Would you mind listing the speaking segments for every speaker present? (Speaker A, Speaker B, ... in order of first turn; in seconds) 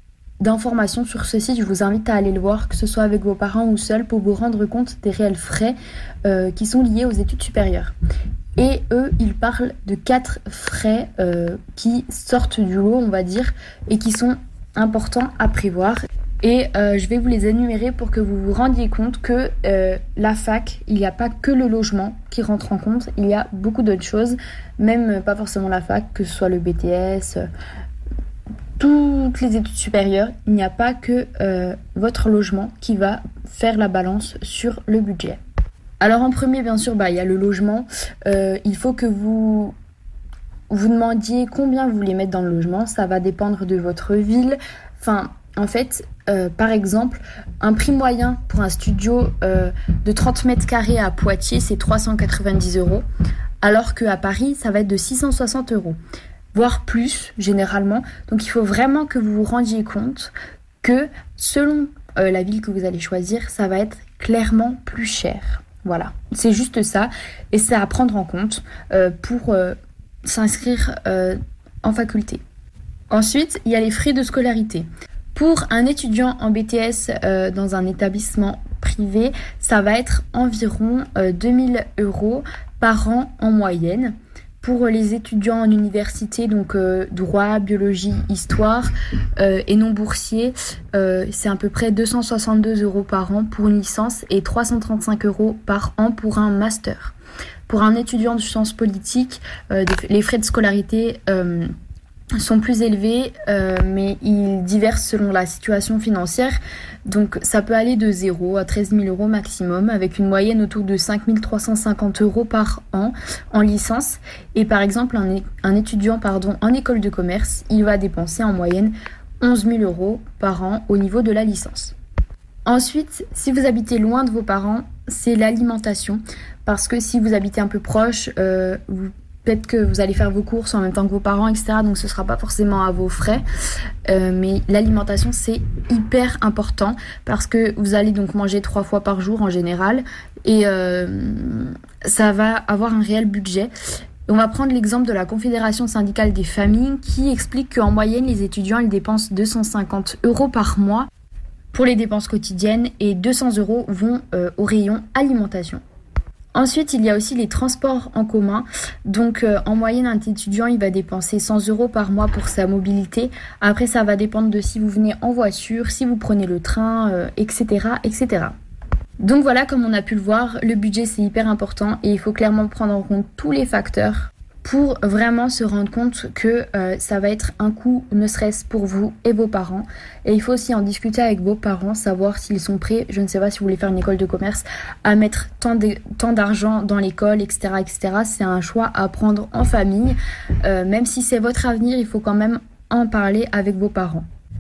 Speaker A: 0.4-8.0, 8.6-27.5, 28.8-35.4, 36.0-39.7, 40.7-53.0, 53.6-56.0, 56.5-72.4, 73.1-97.1, 97.7-101.7, 102.3-121.9, 122.7-133.4, 134.1-143.7, 144.3-151.1, 151.7-155.8, 156.5-168.6, 169.2-194.2